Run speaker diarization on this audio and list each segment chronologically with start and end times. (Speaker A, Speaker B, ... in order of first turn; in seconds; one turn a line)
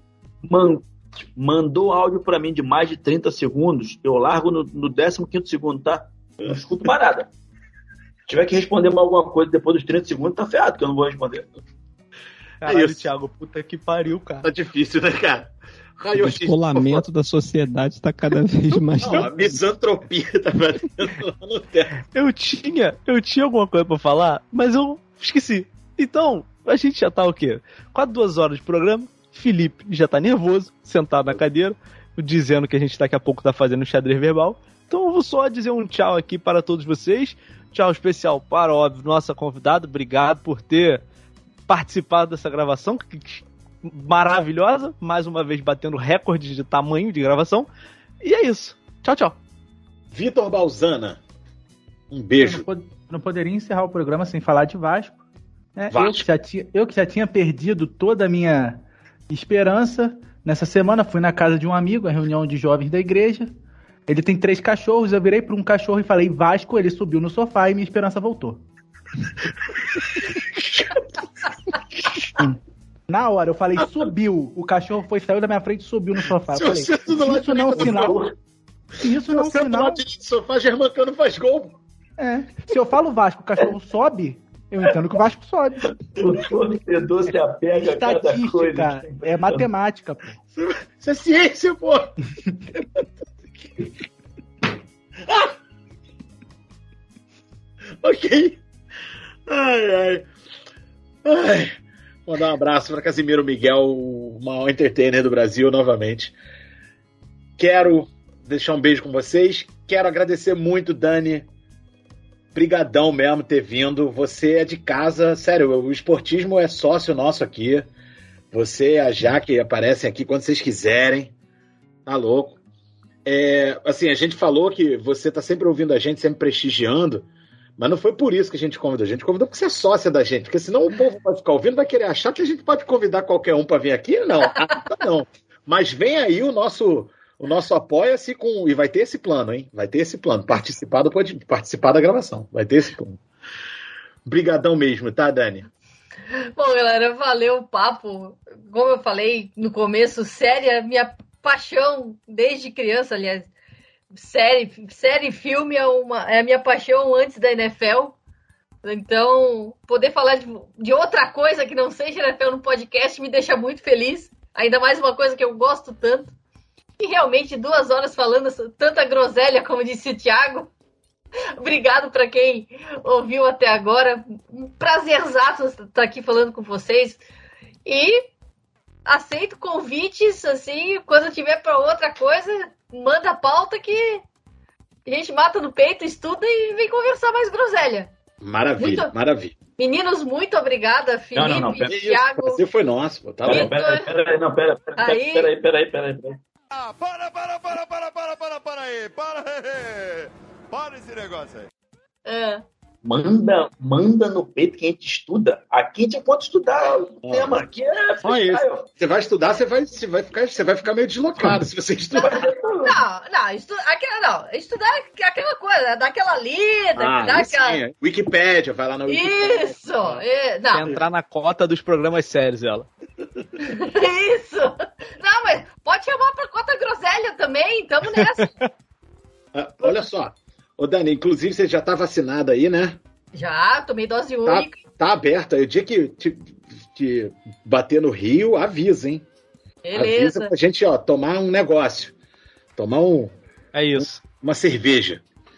Speaker A: 0.4-7.3
Speaker A: 8.3-11.5
Speaker B: 12.6-14.5
Speaker C: 12.6-13.1
Speaker C: 14.4-17.1
Speaker D: 16.1-19.6
Speaker C: 19.0-22.0
Speaker B: 22.1-41.0
Speaker B: 41.7-47.7
Speaker B: 48.2-49.4
Speaker C: 50.1-51.2
Speaker C: 52.1-52.7
Speaker E: 52.4-55.2
Speaker E: 55.8-63.5
Speaker C: 55.9-56.3
Speaker E: 64.1-68.6
Speaker C: 70.5-71.0
Speaker E: 73.1-78.2
Speaker C: 76.5-78.2
Speaker A: 77.8-78.3
Speaker E: 79.0-80.0
Speaker C: 79.3-81.8
Speaker E: 82.2-85.9
Speaker A: 85.9-89.7
Speaker E: 87.8-90.3
Speaker C: 90.5-92.1
Speaker C: 92.7-93.9
Speaker C: 95.2-95.5
Speaker C: 98.0-98.6
Speaker C: 99.5-100.3
Speaker C: 101.2-106.3
Speaker C: 107.6-111.5
Speaker C: 112.5-117.9
Speaker C: 118.5-121.3
Speaker C: 122.1-122.6
Speaker C: 123.2-143.2
Speaker C: 144.2-145.7
Speaker F: 146.6-153.5
Speaker F: 154.2-158.2
Speaker F: 158.8-166.3
Speaker F: 167.0-170.7
Speaker F: 171.6-177.2
Speaker F: 177.8-178.2
Speaker F: 179.1-184.2
Speaker F: 185.1-188.1
Speaker C: 188.4-189.6
Speaker F: 188.8-189.1
Speaker F: 189.8-192.6
Speaker A: 191.3-192.0
Speaker C: 191.9-193.8
Speaker A: 193.4-196.4
Speaker F: 193.5-194.1
Speaker F: 195.0-195.5
Speaker G: 196.7-201.7
Speaker F: 202.3-202.7
Speaker A: 203.0-208.9
Speaker C: 207.2-207.6
Speaker C: 208.2-212.5
Speaker A: 212.2-213.0
Speaker F: 212.9-217.8
Speaker C: 216.9-220.2
Speaker F: 219.1-220.8
Speaker B: 220.7-222.9
Speaker F: 223.6-228.5
Speaker C: 229.5-233.0
Speaker F: 233.3-234.8
Speaker C: 234.4-239.2
Speaker F: 239.8-240.5
Speaker C: 239.9-242.1
Speaker C: 242.8-243.3
Speaker B: 243.7-244.2
Speaker C: 244.0-245.2